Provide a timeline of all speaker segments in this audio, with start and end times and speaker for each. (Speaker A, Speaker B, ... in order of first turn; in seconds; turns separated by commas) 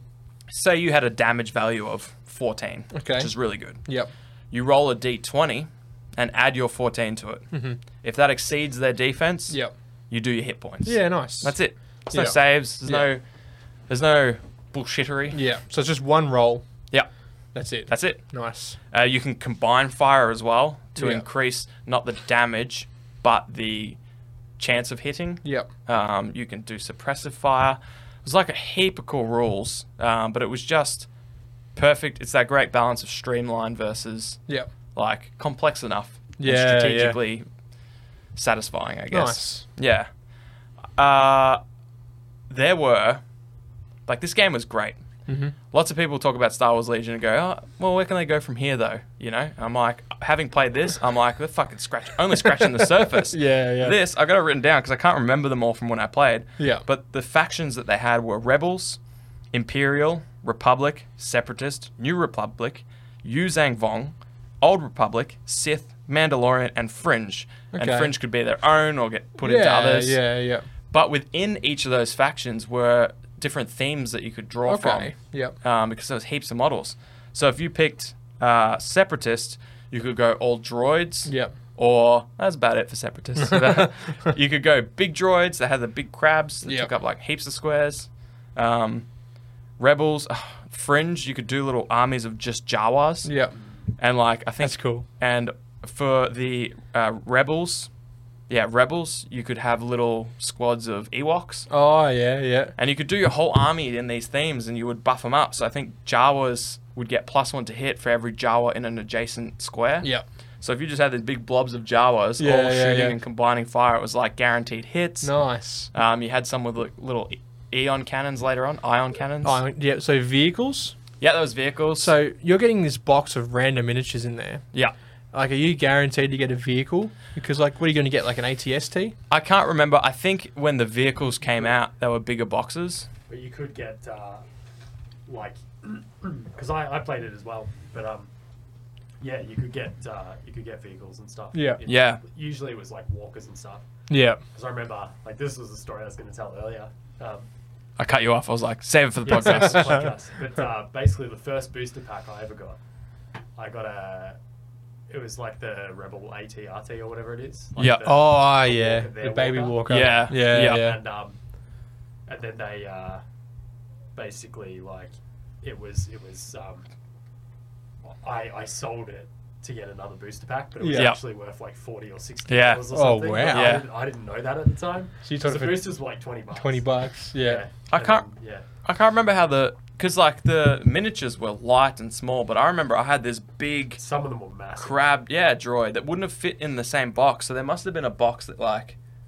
Speaker A: 0.5-3.8, Speaker B: 2.9-4.1, Speaker A: 4.5-9.6, Speaker B: 7.5-7.8, Speaker A: 10.1-13.2, Speaker B: 10.8-11.6, Speaker B: 12.1-13.1, Speaker A: 13.9-15.4, Speaker B: 15.3-16.6, Speaker B: 17.5-18.8, Speaker A: 17.9-18.2, Speaker A: 18.9-24.0, Speaker B: 20.9-21.2, Speaker A: 24.6-31.1, Speaker B: 25.4-25.7, Speaker A: 31.7-34.4, Speaker A: 34.9-37.5, Speaker B: 36.4-37.2, Speaker A: 38.3-40.1, Speaker B: 39.1-39.6, Speaker A: 41.0-41.6, Speaker A: 42.5-43.2, Speaker A: 44.1-45.0, Speaker B: 45.3-45.5, Speaker A: 45.7-59.0, Speaker B: 52.6-54.0, Speaker B: 56.6-56.8, Speaker A: 59.5-70.2, Speaker B: 67.7-68.1, Speaker B: 69.4-70.7, Speaker A: 70.9-89.1, Speaker B: 74.7-75.5, Speaker B: 81.3-81.5, Speaker B: 86.6-86.9, Speaker A: 89.8-93.3, Speaker B: 93.2-93.5, Speaker A: 94.0-97.9, Speaker B: 94.6-95.0, Speaker A: 98.5-101.7, Speaker B: 101.7-102.7, Speaker A: 102.8-110.1, Speaker A: 110.6-115.3, Speaker B: 112.4-113.2, Speaker B: 115.2-115.9, Speaker A: 115.9-119.6, Speaker B: 119.4-120.9, Speaker A: 121.2-122.1, Speaker B: 122.0-124.6, Speaker B: 125.3-129.1, Speaker A: 129.3-133.1, Speaker C: 133.3-134.4, Speaker C: 135.2-138.3, Speaker C: 139.2-143.8, Speaker B: 141.5-141.8, Speaker A: 141.8-142.2, Speaker B: 144.1-144.4, Speaker C: 144.5-147.4, Speaker A: 148.0-150.0, Speaker C: 149.2-152.8, Speaker B: 149.3-150.0, Speaker C: 153.6-154.4, Speaker C: 155.1-161.3, Speaker A: 157.8-158.1, Speaker B: 158.0-161.0, Speaker A: 159.9-160.9, Speaker C: 162.3-163.2, Speaker C: 164.1-166.8, Speaker C: 168.0-178.7, Speaker B: 170.8-171.1, Speaker A: 170.9-171.2, Speaker A: 172.5-172.8, Speaker B: 172.9-173.8, Speaker A: 173.5-173.8, Speaker B: 175.2-175.8, Speaker B: 176.5-177.6, Speaker A: 177.9-178.2, Speaker A: 178.8-184.0, Speaker C: 184.0-185.0, Speaker A: 184.8-188.9